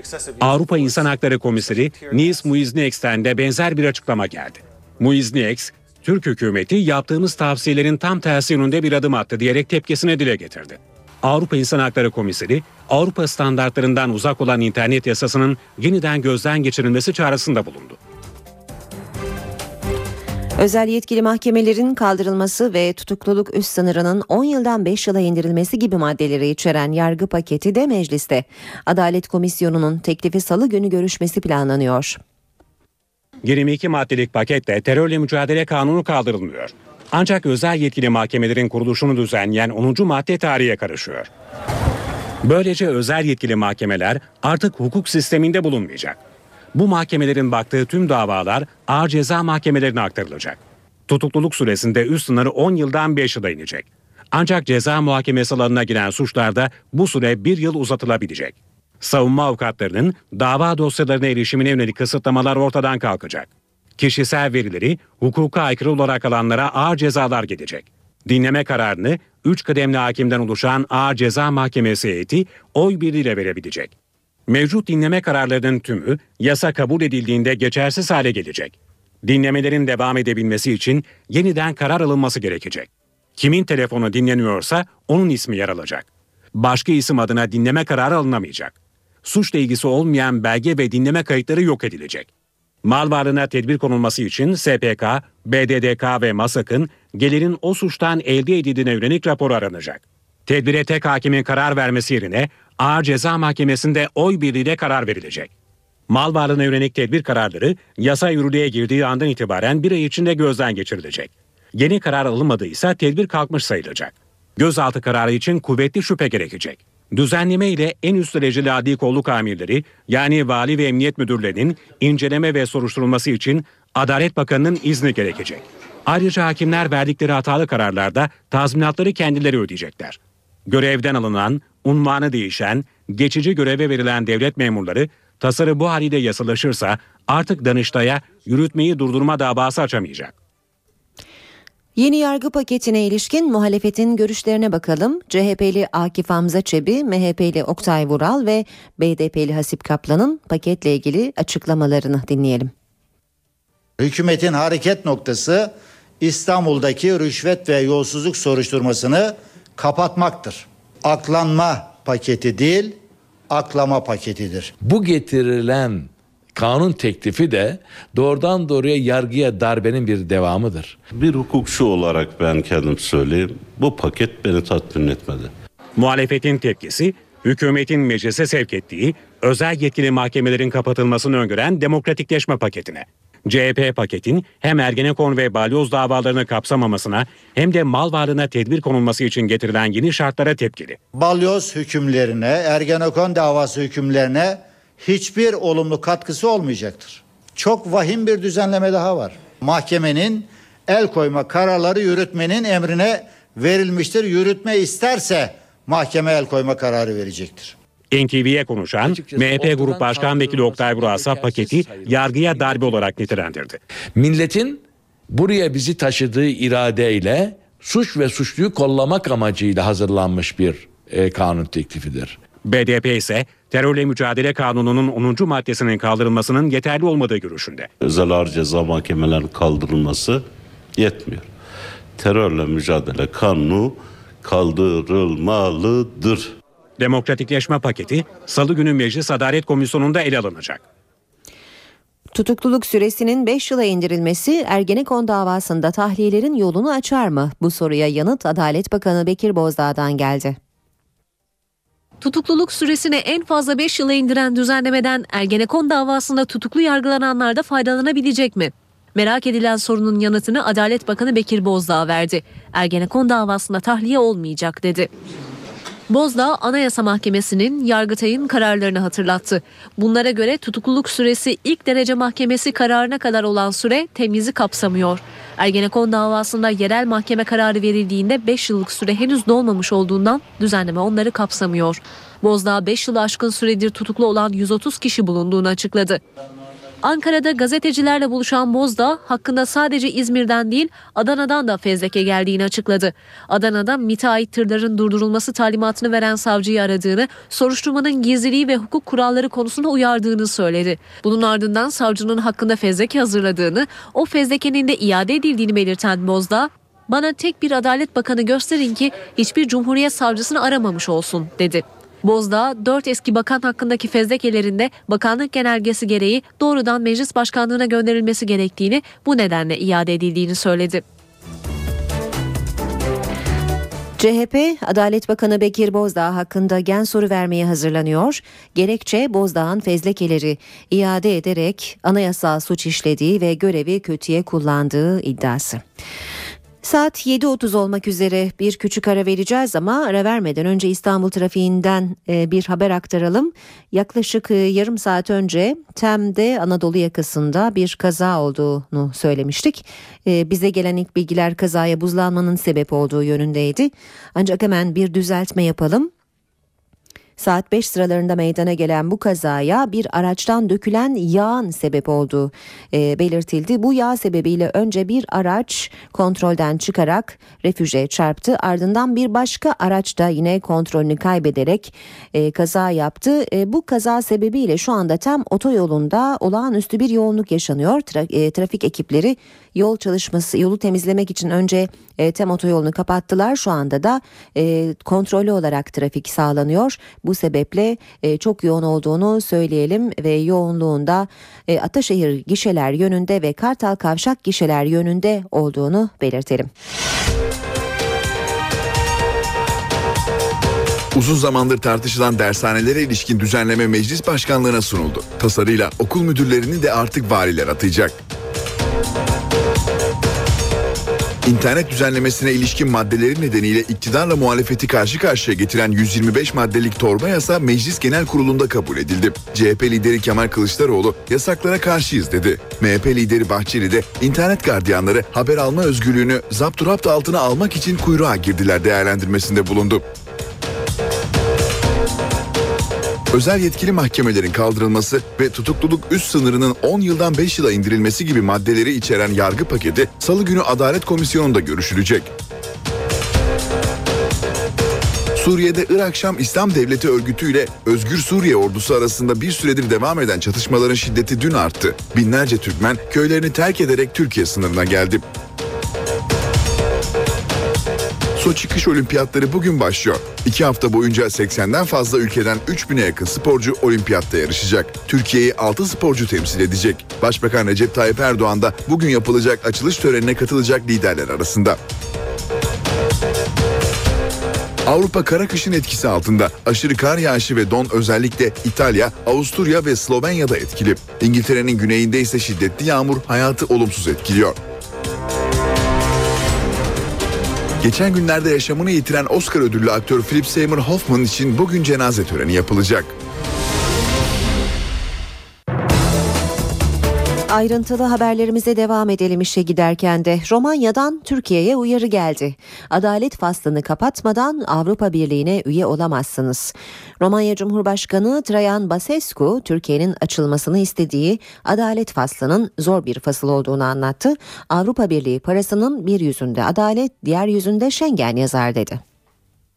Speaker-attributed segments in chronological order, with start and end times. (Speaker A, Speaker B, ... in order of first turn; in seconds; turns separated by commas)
Speaker A: 0.4-18.0, Speaker B: 20.6-32.2, Speaker A: 33.4-41.3, Speaker A: 42.4-46.2, Speaker A: 46.7-73.9, Speaker A: 74.5-92.3, Speaker A: 92.8-105.5, Speaker A: 106.1-140.3, Speaker B: 142.0-152.7, Speaker C: 154.0-163.0, Speaker C: 163.5-164.7, Speaker D: 164.8-171.0, Speaker E: 171.1-175.5, Speaker A: 176.0-191.0, Speaker C: 191.1-207.8, Speaker A: 208.1-213.8, Speaker D: 209.1-212.1, Speaker D: 214.1-222.4, Speaker A: 222.6-227.9, Speaker E: 228.0-230.4, Speaker E: 230.9-231.5, Speaker E: 232.2-236.5, Speaker A: 237.0-240.8, Speaker B: 242.3-250.6, Speaker F: 252.2-265.1, Speaker F: 266.1-286.2, Speaker F: 287.0-321.0, Speaker B: 324.2-335.8, Speaker B: 336.8-356.1, Speaker B: 357.4-396.7, Speaker G: 401.1-408.2, Speaker G: 411.4-430.0, Speaker G: 433.3-442.3, Speaker G: 445.3-455.2, Speaker G: 458.4-471.8, Speaker G: 474.9-484.6, Speaker G: 487.8-493.1, Speaker B: 497.5-519.0